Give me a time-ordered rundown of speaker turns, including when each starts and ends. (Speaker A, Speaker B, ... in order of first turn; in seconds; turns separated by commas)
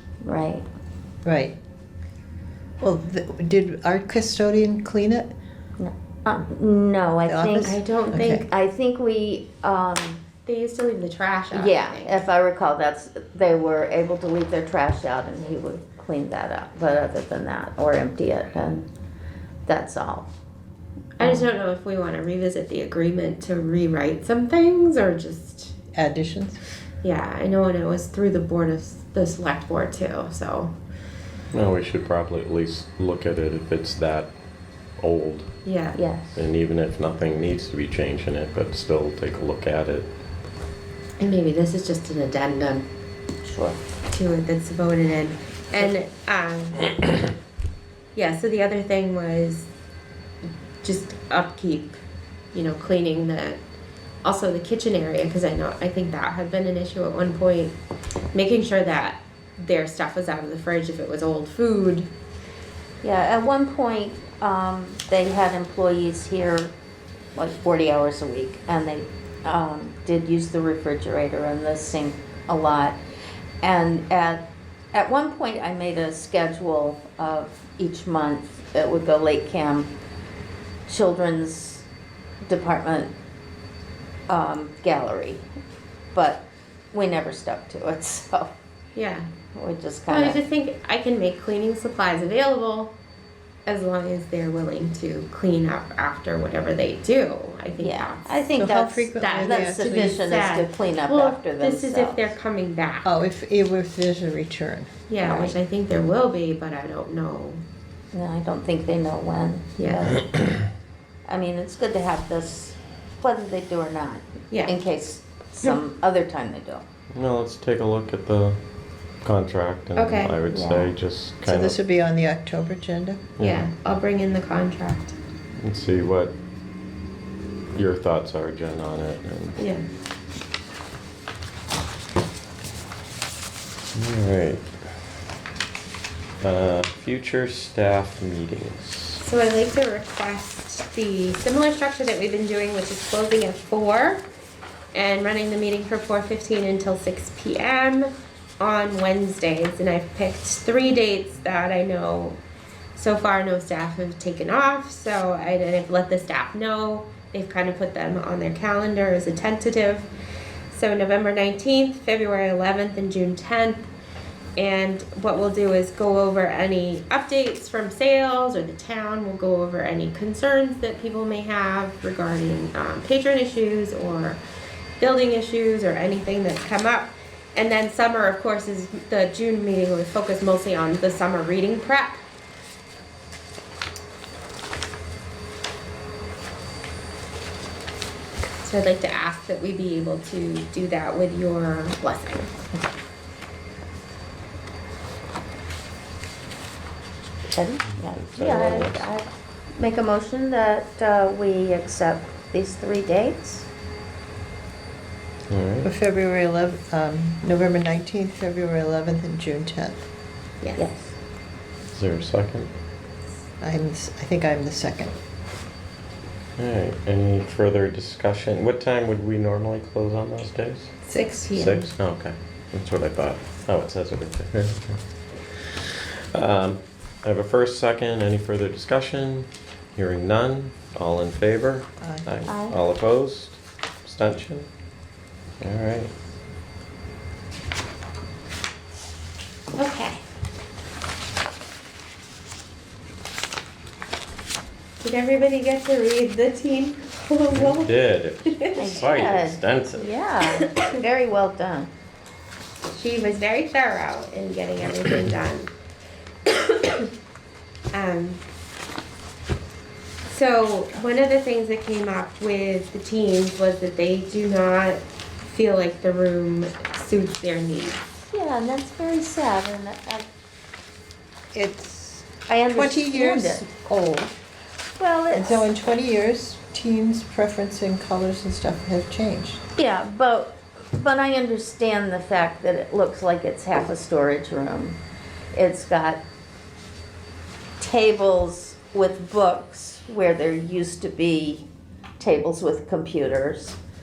Speaker A: 0.2-0.7, Speaker B: 1.2-1.6, Speaker B: 2.8-5.3, Speaker A: 5.8-10.2, Speaker B: 7.2-8.4, Speaker C: 7.6-8.4, Speaker C: 10.5-12.2, Speaker A: 11.5-18.9, Speaker A: 19.7-20.3, Speaker C: 21.2-25.8, Speaker B: 25.9-26.6, Speaker C: 27.0-30.8, Speaker D: 31.5-34.3, Speaker D: 35.0-35.5, Speaker C: 35.6-36.0, Speaker A: 36.0-36.4, Speaker D: 36.4-40.1, Speaker C: 41.2-42.9, Speaker A: 43.4-43.8, Speaker C: 44.1-47.0, Speaker C: 48.1-49.7, Speaker C: 50.8-52.0, Speaker C: 52.5-53.6, Speaker C: 54.2-57.8, Speaker C: 58.3-62.1, Speaker A: 63.0-66.7, Speaker A: 67.4-73.0, Speaker A: 73.6-79.9, Speaker A: 80.9-81.8, Speaker A: 82.5-83.1, Speaker A: 84.3-85.4, Speaker A: 86.1-88.5, Speaker C: 89.0-89.3, Speaker A: 89.5-90.4, Speaker C: 90.1-92.9, Speaker C: 93.7-98.4, Speaker A: 97.8-102.3, Speaker B: 98.5-100.2, Speaker C: 99.2-103.1, Speaker B: 103.0-104.9, Speaker C: 105.1-107.6, Speaker A: 105.2-105.5, Speaker A: 108.1-110.4, Speaker C: 109.8-110.2, Speaker A: 111.3-116.8, Speaker C: 114.5-114.8, Speaker D: 117.1-118.6, Speaker D: 119.2-121.8, Speaker C: 120.0-120.4, Speaker A: 120.5-121.0, Speaker B: 121.4-123.2, Speaker D: 123.4-123.7, Speaker C: 123.4-125.2, Speaker D: 125.6-126.3, Speaker D: 127.7-129.7, Speaker C: 129.6-129.8, Speaker D: 133.9-134.7, Speaker D: 136.4-139.2, Speaker C: 139.2-144.2, Speaker C: 144.9-152.4, Speaker C: 152.9-160.1, Speaker C: 160.7-163.9, Speaker C: 164.6-174.4, Speaker C: 175.0-182.2, Speaker C: 188.6-192.5, Speaker A: 197.5-203.7, Speaker D: 198.0-199.1, Speaker D: 205.5-205.9, Speaker B: 205.8-210.1, Speaker C: 210.6-210.9, Speaker A: 210.8-211.1, Speaker D: 211.9-212.7, Speaker B: 213.6-215.2, Speaker D: 216.6-220.9, Speaker C: 221.0-221.9, Speaker D: 221.5-225.0, Speaker D: 225.6-234.7, Speaker B: 232.0-232.3, Speaker A: 232.5-232.8, Speaker D: 235.6-236.1, Speaker C: 239.8-240.2, Speaker C: 245.0-247.9, Speaker D: 247.5-250.1, Speaker C: 248.5-249.0, Speaker A: 248.8-251.9, Speaker C: 250.6-251.0, Speaker C: 252.9-255.7, Speaker C: 256.5-257.1, Speaker C: 257.9-258.4, Speaker C: 260.2-268.0, Speaker A: 268.3-270.2, Speaker B: 271.5-274.3, Speaker A: 272.5-273.6, Speaker A: 275.0-275.6, Speaker B: 275.3-279.6, Speaker A: 279.8-285.0, Speaker A: 285.5-286.2, Speaker A: 287.8-291.7, Speaker A: 292.2-293.8